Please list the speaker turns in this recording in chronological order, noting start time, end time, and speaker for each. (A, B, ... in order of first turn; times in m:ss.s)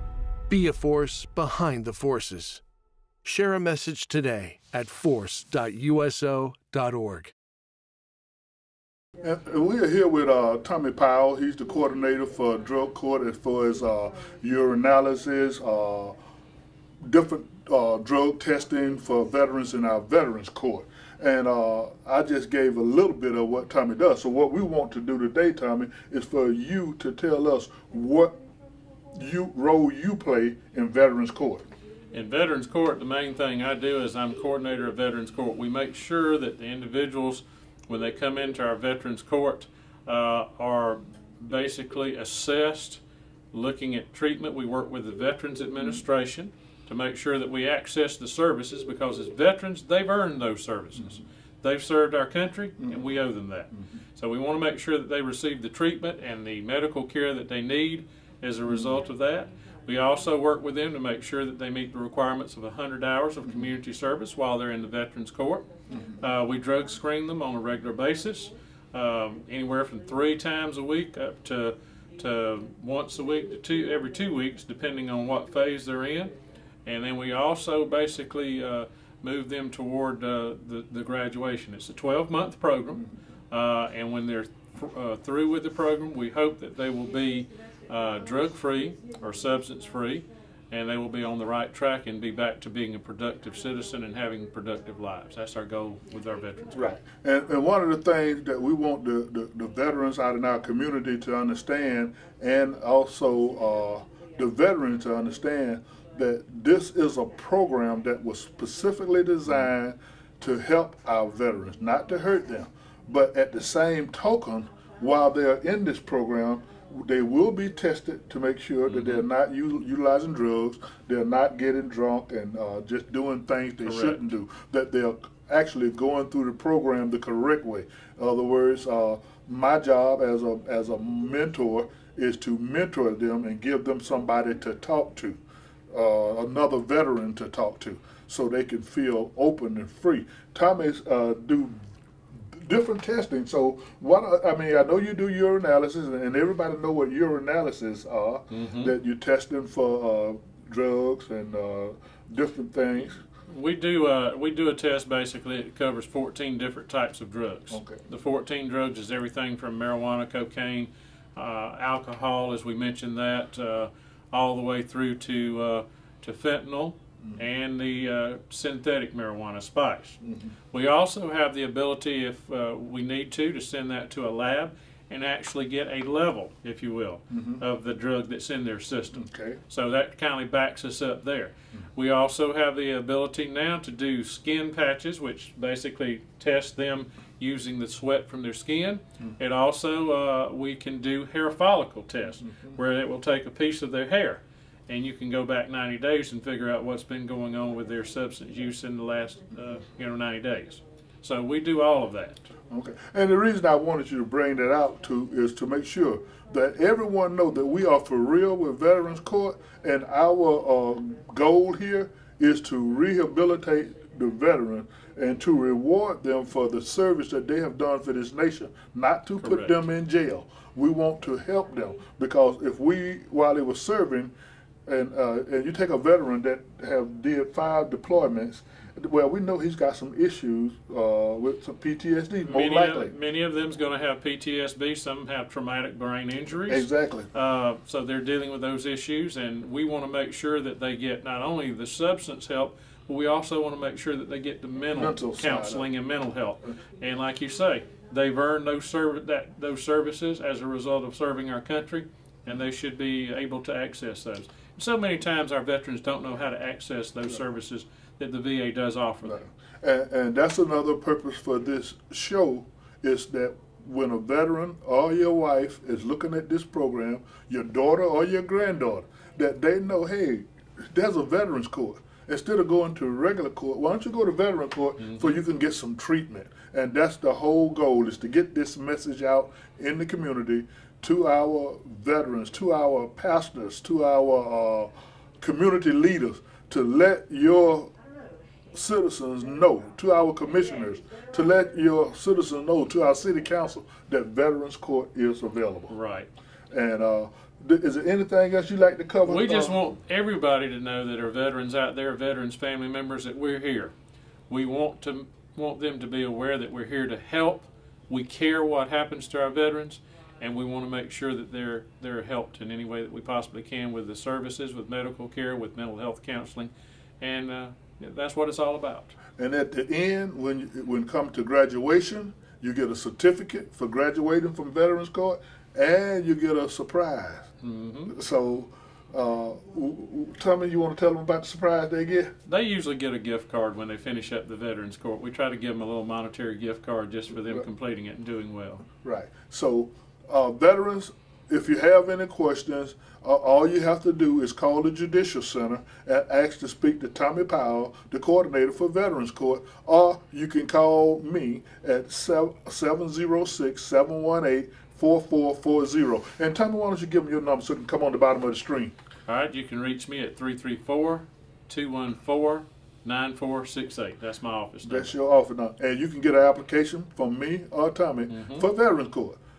0:00.5-0:02.6 A
0:03.2-0:07.3 A
0:09.2-0:16.2 B
0:17.0-0:28.3 B
0:29.1-0:31.7 B
0:32.1-0:43.0 C
0:43.5-1:05.7 C
1:06.2-1:36.9 C
1:36.7-2:15.4 B
1:58.8-1:59.2 C
2:03.8-2:04.2 C
2:15.9-2:21.8 B
2:22.5-2:33.2 B
2:28.5-2:28.9 C
2:33.5-2:50.2 C
2:37.7-2:38.0 B
2:50.2-2:50.5 B
2:50.7-3:22.5 C
2:57.3-2:57.6 B
2:59.1-2:59.6 B
3:22.7-3:44.3 B
3:39.4-3:39.8 C
3:44.8-3:53.1 B
3:52.4-4:19.5 C
3:56.7-3:57.3 B
4:04.9-4:05.9 B
4:19.2-4:47.9 B
4:35.0-4:35.3 C
4:48.7-4:55.9 B
4:55.9-4:56.3 C
4:56.7-4:59.8 B
4:59.2-5:03.9 C
5:04.5-5:19.1 C
5:19.4-5:27.5 B
5:27.6-5:28.1 C
5:28.1-5:32.3 B
5:32.4-5:38.8 C
5:39.0-5:58.9 B
5:59.3-6:05.1 C
6:04.8-6:09.4 B
6:08.3-6:08.7 C